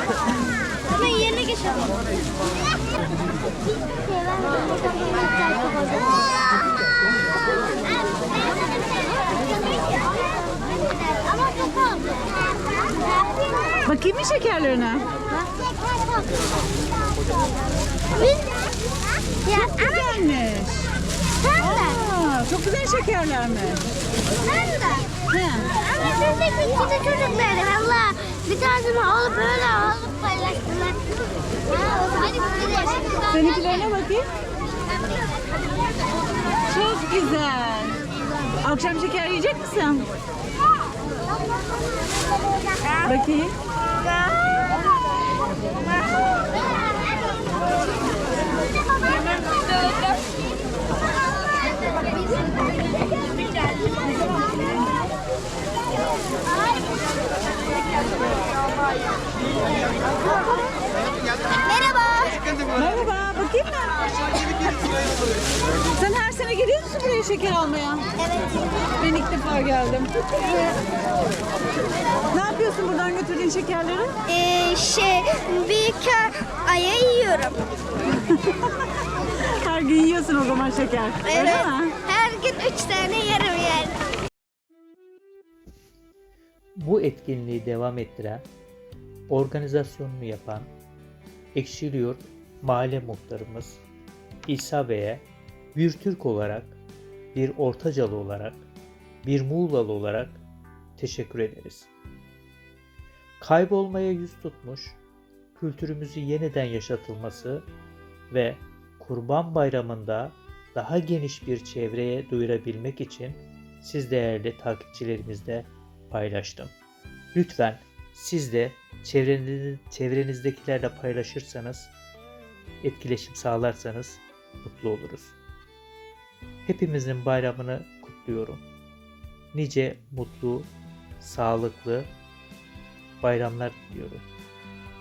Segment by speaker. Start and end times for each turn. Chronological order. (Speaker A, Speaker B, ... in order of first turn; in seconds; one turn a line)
Speaker A: 0.9-2.0
Speaker A: 3.9-6.6
Speaker A: 7.8-9.9
Speaker A: 10.7-12.2
Speaker B: 13.8-15.1
Speaker A: 18.1-18.5
Speaker A: 19.4-20.2
Speaker B: 19.6-20.9
Speaker A: 21.4-22.0
Speaker B: 21.6-23.9
Speaker A: 24.4-25.2
Speaker B: 25.2-25.7
Speaker A: 25.8-31.0
Speaker A: 31.7-34.0
Speaker B: 33.3-34.2
Speaker B: 36.7-38.0
Speaker B: 38.6-40.1
Speaker B: 43.0-43.5
Speaker A: 61.6-62.6
Speaker B: 62.7-64.8
Speaker B: 65.9-68.1
Speaker A: 68.2-68.9
Speaker B: 69.0-70.8
Speaker B: 72.3-74.2
Speaker A: 74.3-77.6
Speaker B: 78.2-78.7
Speaker B: 79.4-81.9
Speaker A: 81.2-84.0
Speaker C: 86.8-88.4
Speaker C: 89.3-90.7
Speaker C: 91.5-93.8
Speaker C: 94.5-96.8
Speaker C: 97.3-98.7
Speaker C: 99.2-100.4
Speaker C: 101.0-101.9
Speaker C: 103.4-105.0
Speaker C: 105.5-107.7
Speaker C: 108.3-116.7
Speaker C: 117.3-121.9
Speaker C: 122.8-125.4
Speaker C: 126.7-128.6
Speaker C: 129.5-130.7
Speaker C: 131.2-132.1
Speaker C: 133.2-134.2